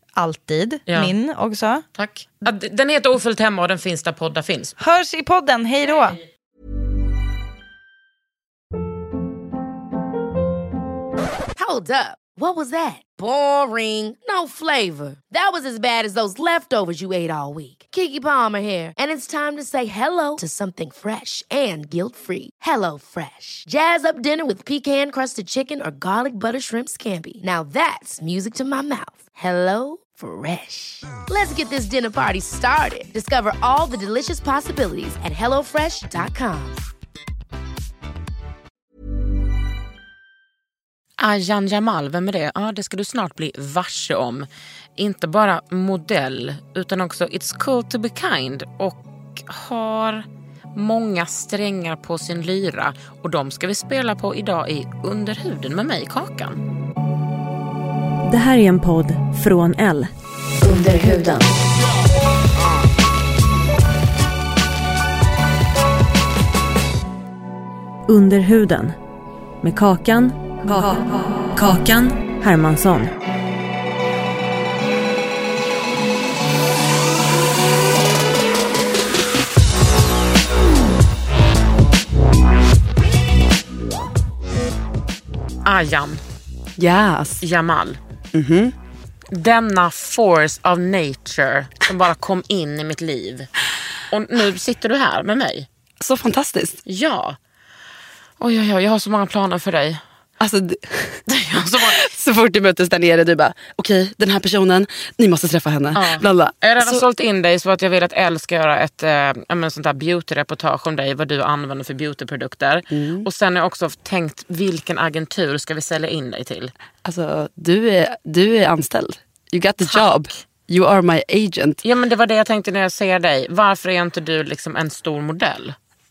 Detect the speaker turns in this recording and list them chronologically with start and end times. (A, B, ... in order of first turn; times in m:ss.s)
0:00.2-0:01.8 A
0:00.9-0:01.1 B
0:01.9-0:04.7 B
0:04.8-0:06.2 A
0:11.6-0:36.8 C
0:41.2-0:56.6 B
0:58.2-1:01.5 D
1:08.1-1:09.0 D
1:09.6-1:13.1 D
1:25.6-1:26.2 B
1:26.8-1:27.4 E
1:27.4-1:28.0 B
1:28.3-1:28.8 E
1:29.3-1:33.5 B
1:34.1-1:35.7 B
1:36.0-1:36.8 E
1:36.9-1:37.4 B
1:38.4-1:40.0 B
1:40.4-1:47.0 E
1:41.3-1:42.0 B
1:45.9-1:56.7 B
1:52.9-1:53.3 E
1:57.0-2:01.8 E
2:01.8-2:05.8 B